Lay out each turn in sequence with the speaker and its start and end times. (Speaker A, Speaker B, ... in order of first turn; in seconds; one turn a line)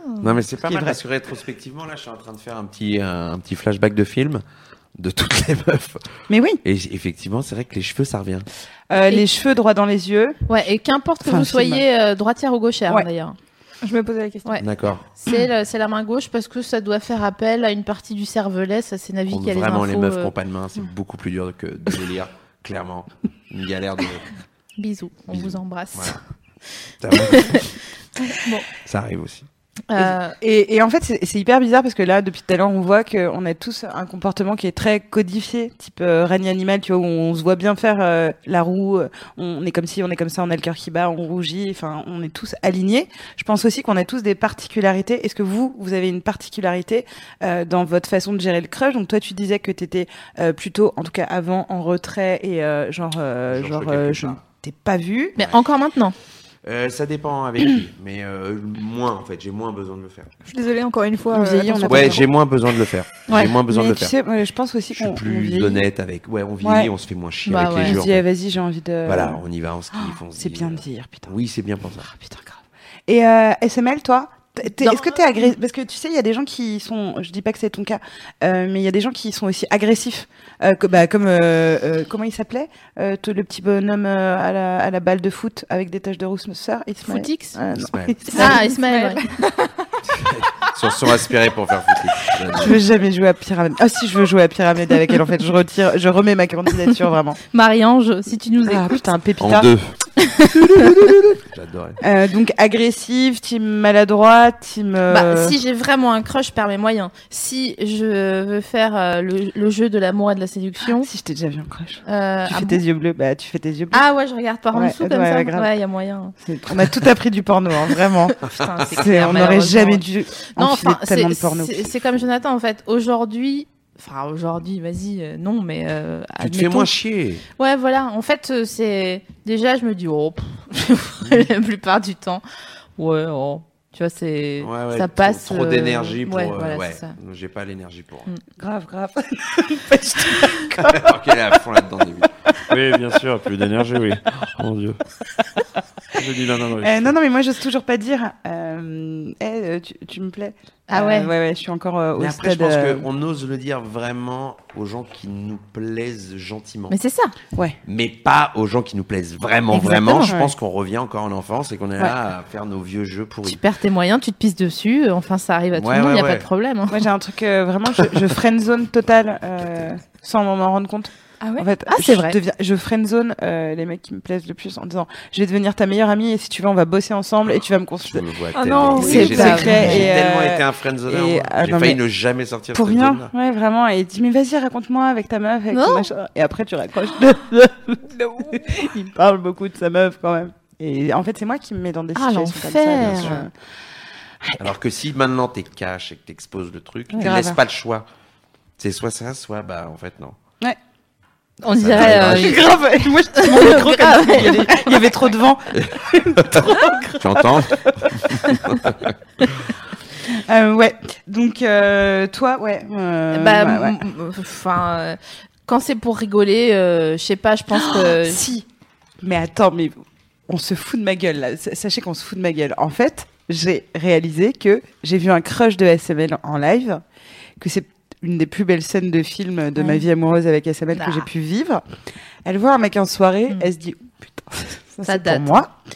Speaker A: 0.2-4.4
Speaker B: 0.6-1.0
Speaker A: 5.0-6.1
Speaker B: 6.3-6.6
Speaker A: 6.6-8.5
Speaker B: 8.9-10.4
Speaker C: 10.5-13.3
Speaker B: 11.2-11.8
Speaker D: 13.8-14.6
Speaker A: 14.6-15.1
Speaker C: 15.2-20.3
Speaker A: 19.3-24.3
Speaker C: 24.8-26.2
Speaker A: 25.3-26.1
Speaker A: 27.0-27.7
Speaker C: 27.2-27.7
Speaker C: 28.2-28.6
Speaker A: 28.8-29.4
Speaker C: 29.9-30.4
Speaker B: 29.9-55.4
Speaker A: 53.5-54.4
Speaker C: 55.4-56.1
Speaker A: 56.6-60.3
Speaker D: 60.5-62.2
Speaker B: 61.4-62.2
Speaker A: 61.9-64.1
Speaker B: 63.3-65.8
Speaker A: 64.9-68.2
Speaker B: 66.6-66.9
Speaker C: 67.5-68.0
Speaker B: 67.8-69.4
Speaker A: 69.0-72.1
Speaker B: 69.9-71.3
Speaker B: 72.0-88.6
Speaker C: 74.8-75.5
Speaker C: 87.0-87.6
Speaker A: 87.8-88.5
Speaker C: 88.3-89.2
Speaker D: 88.4-89.7
Speaker A: 90.1-92.8
Speaker B: 92.5-97.4
Speaker C: 97.5-99.0
Speaker B: 98.6-99.7
Speaker A: 99.4-99.9
Speaker C: 100.2-100.8
Speaker B: 100.8-101.3
Speaker A: 100.9-102.0
Speaker B: 102.0-105.6
Speaker C: 105.1-111.1
Speaker B: 110.8-114.0
Speaker C: 112.0-112.8
Speaker C: 113.9-116.3
Speaker B: 114.7-115.7
Speaker B: 116.4-118.3
Speaker C: 118.3-126.9
Speaker A: 118.5-119.1
Speaker B: 118.9-121.9
Speaker A: 126.4-127.4
Speaker C: 127.6-132.4
Speaker C: 133.0-137.1
Speaker A: 134.6-138.3
Speaker B: 138.6-141.1
Speaker A: 140.8-142.3
Speaker E: 142.7-145.0
Speaker E: 146.1-147.1
Speaker B: 146.8-153.1
Speaker C: 150.9-151.3
Speaker A: 152.2-156.9
Speaker C: 156.9-157.3
Speaker A: 157.8-163.6
Speaker C: 159.7-160.3
Speaker B: 160.2-160.5
Speaker C: 163.4-167.0
Speaker A: 165.7-166.5
Speaker B: 166.9-178.2
Speaker D: 171.4-171.7
Speaker C: 171.8-172.4
Speaker A: 178.1-183.3
Speaker D: 178.5-180.0
Speaker B: 178.9-182.0
Speaker C: 179.0-180.0
Speaker B: 182.7-193.5
Speaker C: 185.7-186.1
Speaker D: 188.1-188.6
Speaker C: 192.1-193.4
Speaker A: 193.0-193.4
Speaker A: 194.6-198.1
Speaker B: 197.1-197.6
Speaker A: 198.8-200.4
Speaker C: 201.6-205.1
Speaker A: 201.8-202.7
Speaker B: 202.0-208.9
Speaker A: 205.8-206.7
Speaker A: 207.2-209.7
Speaker B: 210.2-214.0
Speaker C: 213.3-218.4
Speaker B: 217.7-218.7
Speaker B: 219.2-227.0
Speaker B: 227.6-231.8
Speaker C: 229.8-230.0
Speaker C: 230.9-231.3
Speaker B: 232.4-235.7
Speaker C: 235.1-235.7